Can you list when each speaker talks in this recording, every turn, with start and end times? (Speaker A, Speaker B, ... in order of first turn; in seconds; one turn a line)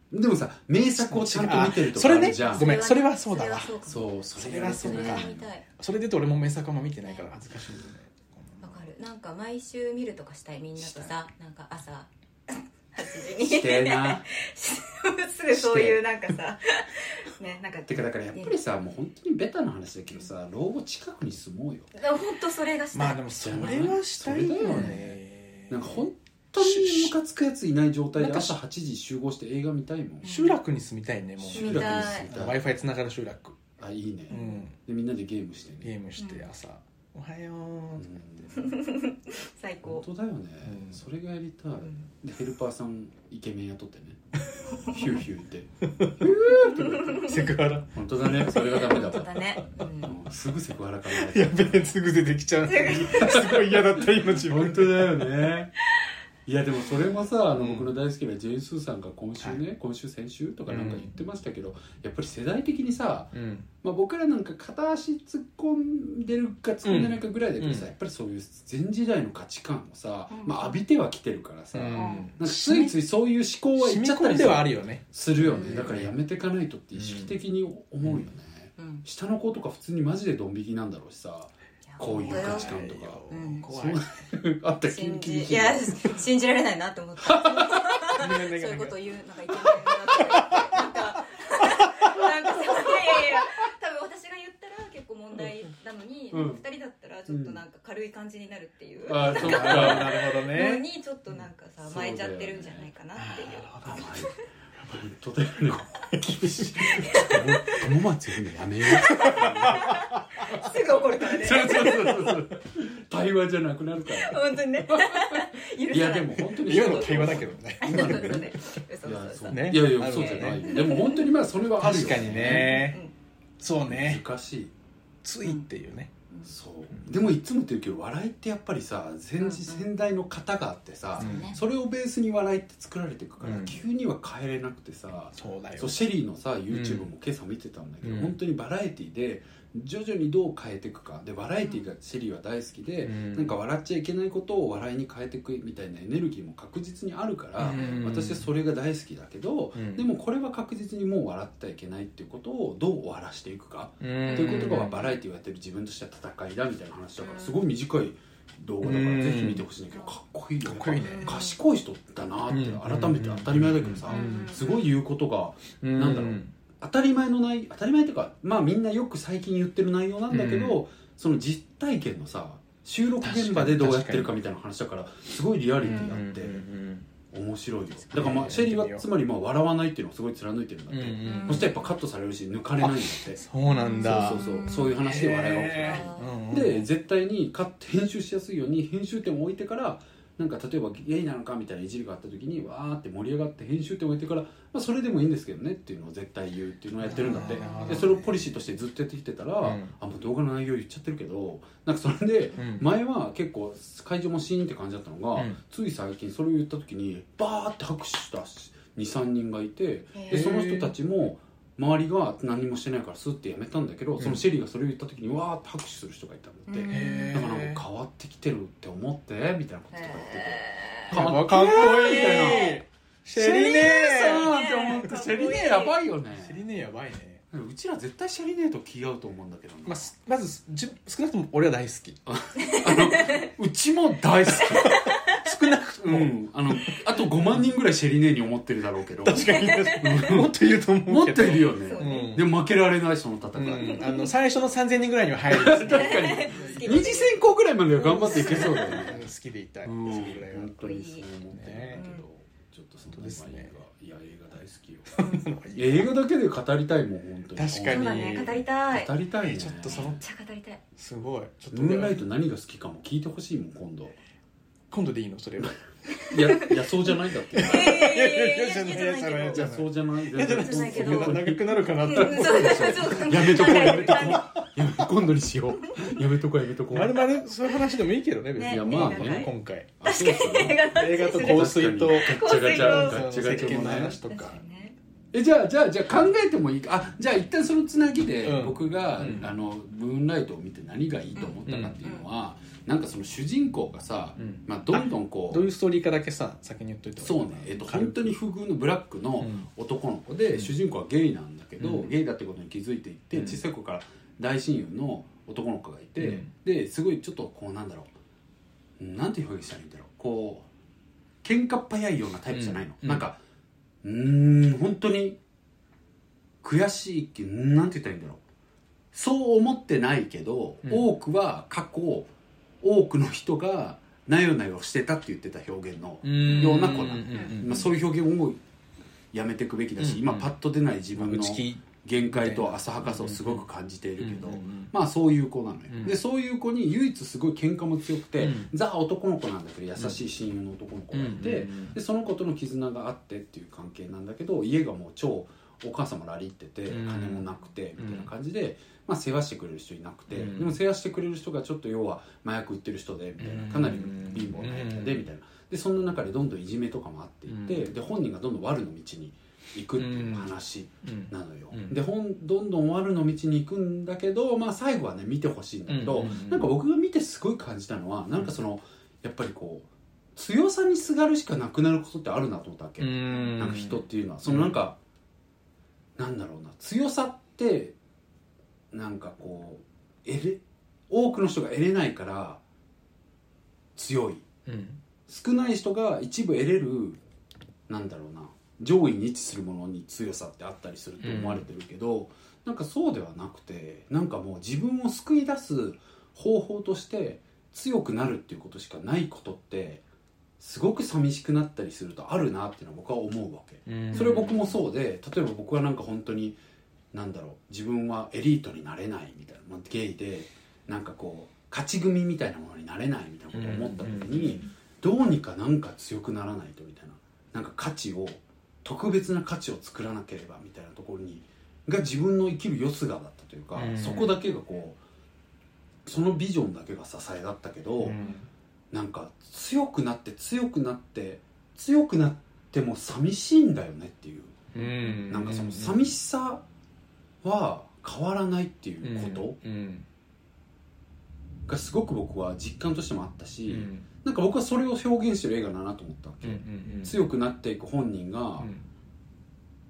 Speaker A: 0.1-2.9
Speaker B: 0.9-3.8
Speaker C: 2.2-5.6
Speaker A: 3.8-5.5
Speaker B: 4.3-8.8
Speaker C: 7.0-7.3
Speaker C: 8.6-18.6
Speaker A: 10.8-11.1
Speaker A: 13.4-14.2
Speaker A: 15.5-16.0
Speaker A: 17.9-21.9
Speaker C: 21.9-23.2
Speaker B: 22.9-27.1
Speaker A: 23.4-25.2
Speaker C: 24.6-24.9
Speaker A: 25.7-30.3
Speaker B: 28.1-28.6
Speaker C: 30.2-30.6
Speaker B: 30.2-33.6
Speaker A: 31.4-32.6
Speaker C: 31.5-32.3
Speaker A: 33.8-35.9
Speaker C: 34.3-34.6
Speaker B: 34.3-34.8
Speaker B: 35.8-38.5
Speaker C: 36.2-36.5
Speaker A: 38.0-38.7
Speaker C: 38.5-40.0
Speaker A: 39.8-44.2
Speaker B: 40.6-41.0
Speaker C: 41.8-42.1
Speaker C: 44.7-45.0
Speaker A: 44.9-45.7
Speaker B: 46.0-49.2
Speaker A: 46.2-47.3
Speaker C: 46.6-47.5
Speaker A: 47.9-49.4
Speaker C: 48.5-50.2
Speaker A: 50.0-51.9
Speaker B: 51.1-55.3
Speaker C: 52.6-53.6
Speaker A: 53.0-55.7
Speaker A: 56.5-86.1
Speaker B: 57.5-57.9
Speaker B: 60.7-61.1
Speaker B: 63.3-63.7
Speaker B: 66.8-67.9
Speaker C: 70.3-70.8
Speaker B: 71.7-73.0
Speaker C: 72.0-72.3
Speaker B: 73.8-76.1
Speaker C: 75.5-75.9
Speaker B: 77.0-77.4
Speaker B: 78.0-78.3
Speaker C: 78.8-79.0
Speaker C: 81.9-83.7
Speaker B: 82.0-84.0
Speaker C: 84.9-104.4
Speaker A: 87.2-87.9
Speaker B: 88.1-91.0
Speaker B: 91.8-92.1
Speaker A: 96.3-96.6
Speaker A: 97.3-97.6
Speaker A: 99.1-100.2
Speaker B: 99.2-100.8
Speaker A: 101.8-102.9
Speaker B: 103.1-104.2
Speaker A: 103.8-104.3
Speaker A: 104.9-110.7
Speaker B: 106.1-107.9
Speaker C: 106.9-107.8
Speaker C: 108.9-112.1
Speaker B: 109.0-110.6
Speaker A: 111.2-122.8
Speaker C: 114.1-121.3
Speaker B: 116.6-118.4
Speaker B: 119.5-120.8
Speaker B: 121.8-123.0
Speaker C: 122.4-123.1
Speaker B: 123.6-124.2
Speaker A: 123.9-124.7
Speaker B: 125.2-126.1
Speaker A: 126.4-176.6
Speaker C: 129.4-129.9
Speaker C: 131.2-131.6
Speaker B: 131.2-131.5
Speaker B: 133.4-133.8
Speaker B: 135.3-136.0
Speaker B: 136.7-137.1
Speaker B: 138.0-138.3
Speaker B: 143.0-143.6
Speaker B: 147.6-148.5
Speaker C: 147.7-148.1
Speaker B: 149.8-150.1
Speaker B: 154.0-155.1
Speaker C: 154.2-154.8
Speaker C: 157.2-157.6
Speaker B: 158.8-159.6
Speaker B: 160.6-161.4
Speaker C: 161.0-161.6
Speaker B: 162.5-164.5
Speaker C: 164.1-164.9
Speaker B: 165.8-166.5
Speaker B: 170.3-170.8
Speaker B: 173.2-174.4
Speaker B: 175.8-177.1
Speaker A: 177.3-183.4
Speaker B: 178.1-179.1
Speaker B: 180.9-181.7
Speaker C: 181.2-181.9
Speaker B: 182.8-186.9
Speaker C: 183.6-185.0
Speaker A: 184.0-222.8
Speaker C: 185.8-186.3
Speaker B: 197.1-198.2
Speaker C: 197.1-198.1
Speaker B: 199.6-199.9
Speaker B: 202.6-202.9
Speaker B: 205.3-205.6
Speaker C: 210.1-210.5
Speaker B: 210.3-210.9
Speaker B: 214.2-214.4
Speaker C: 216.7-217.5
Speaker B: 216.9-217.8
Speaker C: 219.9-222.8
Speaker B: 221.1-224.6
Speaker A: 223.3-226.6
Speaker C: 223.8-226.0
Speaker B: 226.3-227.4
Speaker A: 227.5-230.1
Speaker B: 229.9-232.2
Speaker A: 232.3-235.0
Speaker C: 232.6-233.5
Speaker C: 234.6-235.5
Speaker B: 234.7-237.0
Speaker A: 236.0-240.5
Speaker B: 239.2-242.5
Speaker C: 239.4-240.3
Speaker A: 241.1-244.2
Speaker C: 241.7-242.4
Speaker B: 243.6-247.1
Speaker C: 243.8-244.3
Speaker A: 245.5-249.2
Speaker C: 245.8-247.4
Speaker C: 247.9-249.1
Speaker B: 248.3-250.9
Speaker A: 249.8-255.2
Speaker C: 250.8-251.2
Speaker B: 251.5-252.0
Speaker C: 251.9-252.2
Speaker B: 253.1-253.7
Speaker B: 255.1-256.1
Speaker C: 255.2-255.4
Speaker A: 255.8-260.1
Speaker B: 257.6-258.6
Speaker C: 257.9-259.1
Speaker B: 259.4-260.2
Speaker C: 259.9-260.8
Speaker B: 261.0-262.2
Speaker A: 261.7-264.2
Speaker B: 264.9-265.8
Speaker C: 266.2-266.7
Speaker A: 266.3-268.1
Speaker B: 267.5-274.6
Speaker C: 267.6-269.7
Speaker A: 269.5-277.2
Speaker C: 270.4-271.4
Speaker C: 272.0-274.5
Speaker C: 275.8-276.1
Speaker B: 276.9-279.9
Speaker C: 278.6-284.9
Speaker A: 278.6-284.2
Speaker B: 280.9-284.6
Speaker A: 285.3-295.6
Speaker B: 288.4-289.5
Speaker C: 291.4-292.2
Speaker B: 291.6-292.0
Speaker B: 294.4-298.3
Speaker A: 297.2-308.1
Speaker B: 299.4-299.7
Speaker B: 301.8-302.1
Speaker B: 303.3-303.6
Speaker B: 306.2-306.5
Speaker A: 309.0-310.7
Speaker A: 311.4-313.4
Speaker B: 312.5-313.3
Speaker A: 314.0-315.4
Speaker A: 316.6-318.4
Speaker A: 319.1-322.3
Speaker A: 322.8-328.6
Speaker B: 326.2-327.9
Speaker C: 326.4-327.6
Speaker A: 329.3-375.0
Speaker B: 330.0-330.5
Speaker B: 331.1-333.7
Speaker B: 334.2-334.9
Speaker B: 335.9-336.2
Speaker B: 338.4-338.7
Speaker B: 341.1-341.9
Speaker B: 346.9-348.3
Speaker B: 350.3-350.8
Speaker B: 353.4-355.3
Speaker B: 357.5-357.9
Speaker B: 360.0-360.5
Speaker B: 361.0-362.0
Speaker B: 365.9-366.7
Speaker B: 373.0-374.8
Speaker A: 376.2-377.9
Speaker A: 378.9-382.6
Speaker A: 383.9-384.4
Speaker B: 384.7-385.0
Speaker A: 385.3-387.2
Speaker A: 387.9-400.0
Speaker B: 391.2-391.6
Speaker A: 400.6-406.6
Speaker B: 403.9-404.7
Speaker A: 407.1-425.0
Speaker B: 413.5-414.6
Speaker B: 423.8-424.4
Speaker A: 426.1-428.2
Speaker B: 428.0-428.5
Speaker A: 428.9-434.6
Speaker B: 434.7-436.0
Speaker A: 435.3-436.6
Speaker A: 437.4-439.6
Speaker B: 439.0-440.1
Speaker A: 441.7-448.7
Speaker B: 443.7-444.1
Speaker B: 446.4-447.2
Speaker B: 448.6-448.9